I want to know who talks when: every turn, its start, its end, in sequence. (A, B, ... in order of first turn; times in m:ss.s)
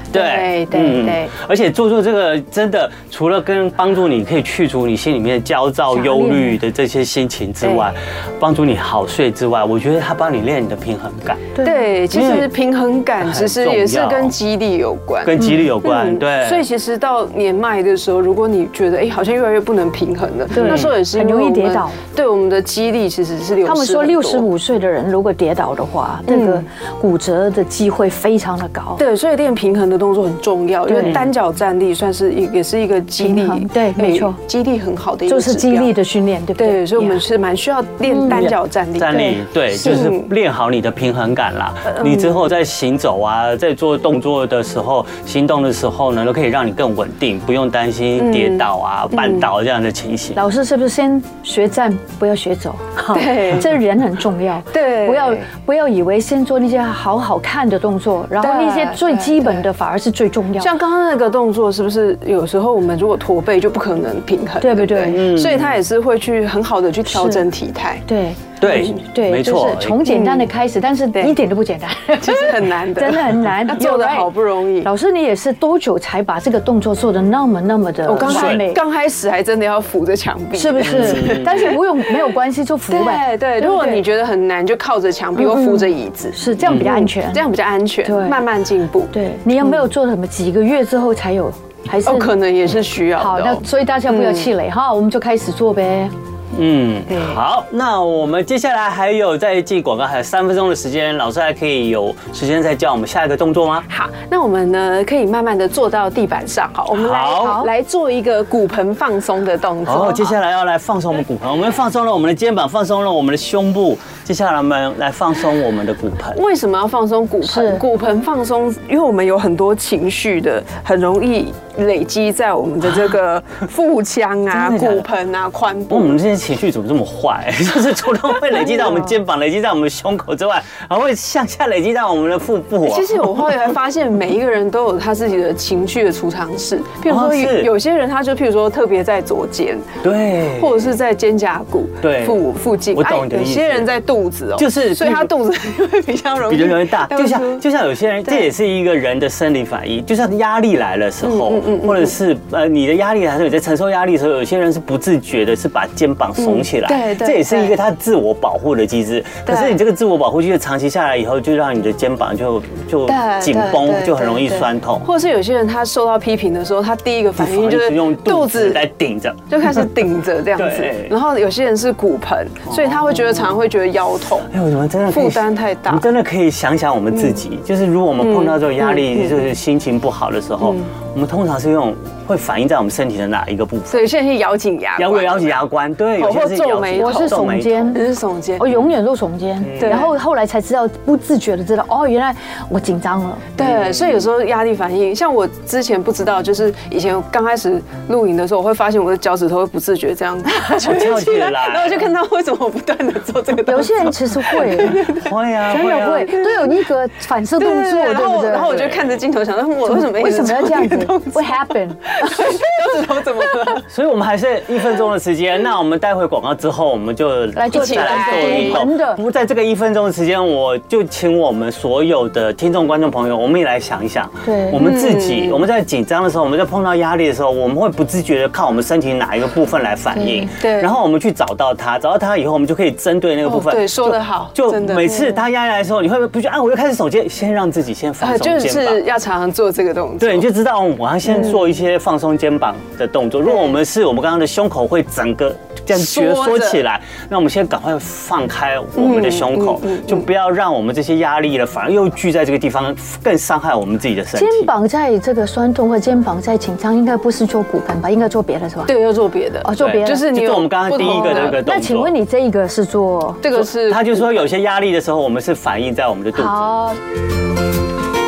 0:00.1-0:01.3 A
0:00.1-0:11.5 B
0:05.9-0:06.6 C
0:07.6-0:07.9 A
0:11.6-0:11.9 C
0:11.6-0:24.5 A
0:12.1-0:12.5 B
0:13.2-0:14.3 B
0:15.2-0:16.7 B
0:20.5-0:22.0 C
0:20.6-0:21.0 B
0:23.6-0:29.0 C
0:26.3-0:26.6 A
0:29.0-0:35.9 A
0:30.9-0:31.2 C
0:31.0-0:31.3 B
0:33.2-0:34.4 C
0:35.3-0:37.2 C
0:36.6-0:40.3 A
0:38.1-0:38.5 C
0:38.3-0:50.4 B
0:41.9-0:42.4 A
0:48.2-0:49.5 A
0:50.4-1:00.7 C
0:53.1-0:53.8 A
0:54.7-0:55.5 A
0:58.4-0:59.7 A
1:00.6-1:08.0 A
1:04.6-1:05.2 C
1:05.1-1:05.8 B
1:07.1-1:07.4 C
1:08.1-1:14.3 C
1:08.6-1:10.0 B
1:08.6-1:09.0 A
1:10.0-1:10.5 A
1:12.2-1:14.9 A
1:14.8-1:18.8 C
1:18.1-1:21.8 A
1:18.2-1:18.7 B
1:20.6-1:24.0 C
1:20.8-1:21.8 B
1:22.9-1:29.8 A
1:25.4-1:27.4 C
1:26.6-1:26.9 B
1:28.0-1:28.4 C
1:29.1-1:32.3 C
1:32.0-1:34.5 A
1:33.2-1:36.1 C
1:36.5-1:43.9 B
1:37.1-1:37.4 A
1:43.9-1:50.4 A
1:46.9-1:47.6 B
1:47.3-1:47.7 C
1:49.8-1:56.4 B
1:56.3-2:06.2 A
1:57.4-1:57.8 C
2:04.5-2:05.1 B
2:05.9-2:13.6 B
2:08.6-2:09.2 A
2:12.8-2:27.6 A
2:17.0-2:17.7 B
2:20.0-2:20.9 B
2:22.0-2:23.9 B
2:24.6-2:25.3 B
2:26.5-2:45.1 B
2:28.2-2:28.5 A
2:31.2-2:32.2 A
2:36.4-2:37.8 A
2:39.5-2:39.8 A
2:43.1-2:48.8 A
2:47.4-2:49.5 B
2:49.5-2:54.5 A
2:50.6-2:51.2 B
2:52.7-2:53.6 B
2:54.5-3:04.1 B
2:55.1-2:56.1 A
2:57.1-2:57.4 A
2:58.2-2:59.5 A
3:00.6-3:00.9 A
3:03.9-3:05.6 A
3:05.0-3:08.0 B
3:06.2-3:08.7 A
3:07.0-3:08.0 C
3:08.6-3:13.5 C
3:09.6-3:10.1 B
3:09.8-3:10.1 A
3:13.6-3:25.3 A
3:13.6-3:14.2 B
3:20.7-3:22.1 B
3:23.7-3:25.0 C
3:24.9-3:26.4 B
3:25.7-3:28.8 C
3:26.0-3:26.7 A
3:27.6-3:33.9 A
3:28.8-3:29.2 B
3:29.8-3:32.6 C
3:33.9-3:59.0 B
3:37.6-3:39.2 C
3:37.7-3:38.8 A
3:44.4-3:44.9 C
3:44.8-3:45.6 A
3:50.1-3:50.5 C
3:50.6-3:51.0 A
3:53.4-3:55.4 A
3:58.2-4:00.5 A
4:00.2-4:14.7 B
4:01.3-4:01.6 A
4:03.5-4:03.8 A
4:05.9-4:06.8 A
4:09.0-4:10.3 A
4:14.4-4:18.9 C
4:18.9-4:21.6 A
4:19.6-4:20.3 C
4:19.8-4:22.1 B
4:21.4-4:23.4 C
4:23.4-4:24.5 A
4:23.6-4:26.7 B
4:26.4-4:27.0 C